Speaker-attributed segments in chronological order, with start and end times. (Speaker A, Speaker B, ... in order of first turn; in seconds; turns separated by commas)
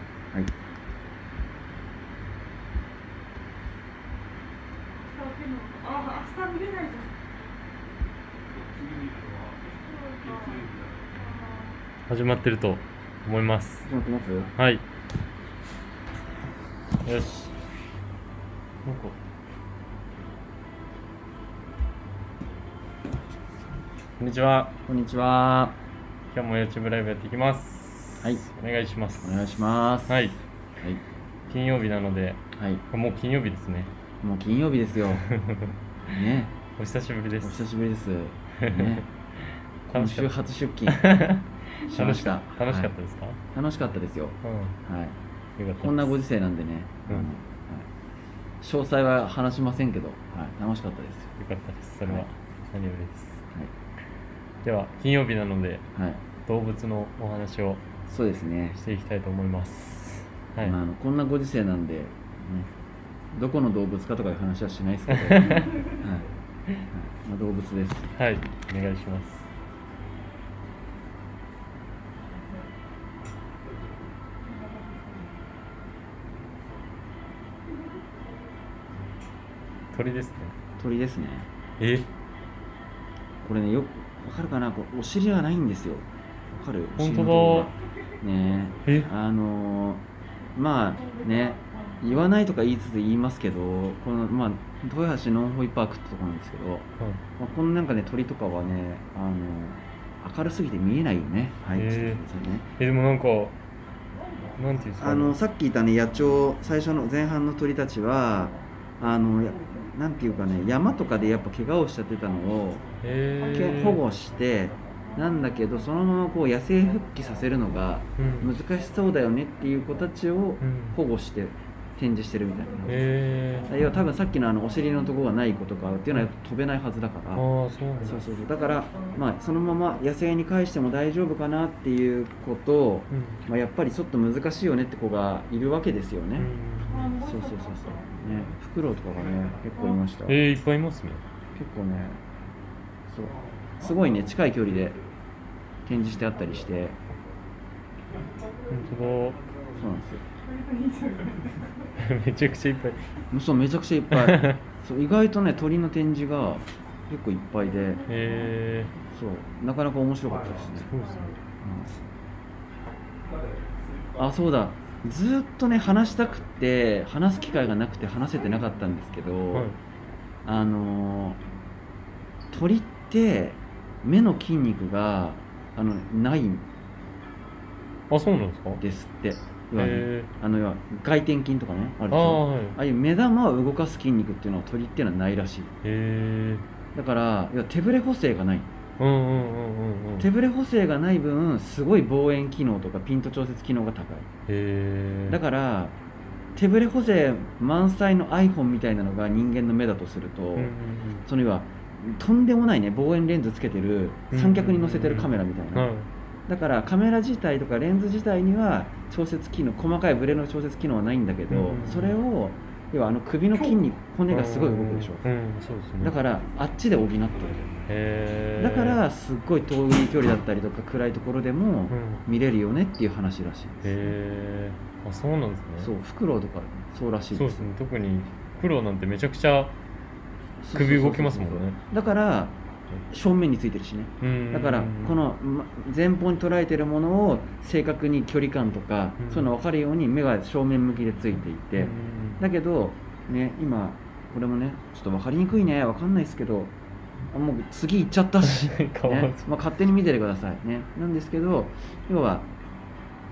Speaker A: 5.1-7.1, Speaker A: 9.7-11.8, Speaker B: 12.1-13.9, Speaker C: 13.8-14.5, Speaker B: 14.6-14.8, Speaker B: 17.0-17.5, Speaker B: 18.8-19.1, Speaker B: 24.2-24.8, Speaker C: 24.9-25.8, Speaker B: 26.3-29.4, Speaker C: 29.2-30.2, Speaker B: 30.1-30.4, Speaker B: 31.5-33.9, Speaker C: 32.5-32.8, Speaker C: 34.2-35.3, Speaker B: 35.1-35.8, Speaker C: 36.1-36.5, Speaker B: 36.7-37.6, Speaker C: 37.4-39.1, Speaker B: 38.5-40.3, Speaker C: 39.9-41.0, Speaker B: 40.9-43.4, Speaker C: 41.9-42.9, Speaker C: 43.5-45.2, Speaker B: 44.4-44.8, Speaker B: 45.6-46.1, Speaker C: 45.8-47.9, Speaker C: 48.6-51.3, Speaker B: 51.4-53.4, Speaker B: 54.6-55.9, Speaker C: 55.9-56.2, Speaker B: 56.4-57.9, Speaker C: 58.1-58.8, Speaker B: 58.7-60.8, Speaker C: 60.6-62.7, Speaker C: 63.3-66.3, Speaker B: 65.1-65.8, Speaker C: 66.9-68.1, Speaker B: 68.1-69.5, Speaker B: 79.9-80.5, Speaker C: 80.8-81.5, Speaker B: 81.8-82.1, Speaker C: 83.4-102.7, Speaker B: 87.0-87.7, Speaker B: 88.8-89.1, Speaker B: 101.7-102.2, Speaker B: 102.8-103.5, Speaker B: 104.6-105.4, Speaker C: 105.0-112.8, Speaker B: 113.0-114.0, Speaker C: 113.4-123.0, Speaker B: 118.2-118.5, Speaker B: 120.6-121.0, Speaker B: 122.8-123.8, Speaker C: 123.7-127.5, Speaker B: 127.3-128.2, Speaker C: 128.0-136.5, Speaker B: 133.1-133.4, Speaker B: 136.4-137.2, Speaker A: 136.9-137.4, Speaker C: 137.1-140.4, Speaker B: 140.2-141.2, Speaker C: 141.5-142.2, Speaker C: 143.1-145.0, Speaker C: 145.8-147.0, Speaker B: 148.7-149.4, Speaker C: 149.7-150.2, Speaker A: 150.4-151.7, Speaker B: 152.0-153.1, Speaker C: 153.3-158.0, Speaker B: 154.1-154.6, Speaker B: 158.1-158.9, Speaker C: 159.1-160.9, Speaker B: 160.7-161.4, Speaker C: 161.6-162.0, Speaker C: 164.1-169.7, Speaker B: 169.5-169.8, Speaker C: 170.4-171.4, Speaker C: 172.5-176.7, Speaker B: 178.1-178.8, Speaker C: 178.8-185.7, Speaker B: 179.7-180.3, Speaker B: 182.1-182.8, Speaker B: 185.8-186.7, Speaker C: 186.9-188.7, Speaker B: 189.0-190.3, Speaker C: 190.2-194.3, Speaker B: 194.5-195.4, Speaker C: 195.3-195.9, Speaker C: 196.6-200.7, Speaker B: 200.5-201.3, Speaker C: 201.2-205.9, Speaker B: 204.3-206.1, Speaker C: 206.5-215.2, Speaker B: 211.5-212.2, Speaker B: 214.3-216.2, Speaker C: 216.0-217.7, Speaker B: 217.8-219.0, Speaker C: 218.6-223.9, Speaker B: 221.9-222.2, Speaker B: 223.8-225.9, Speaker C: 225.8-227.7, Speaker B: 227.3-229.7, Speaker C: 230.6-246.7, Speaker B: 230.7-231.8, Speaker B: 234.2-235.2, Speaker B: 239.2-239.5, Speaker B: 241.7-242.4, Speaker C: 247.3-252.5, Speaker B: 248.4-249.6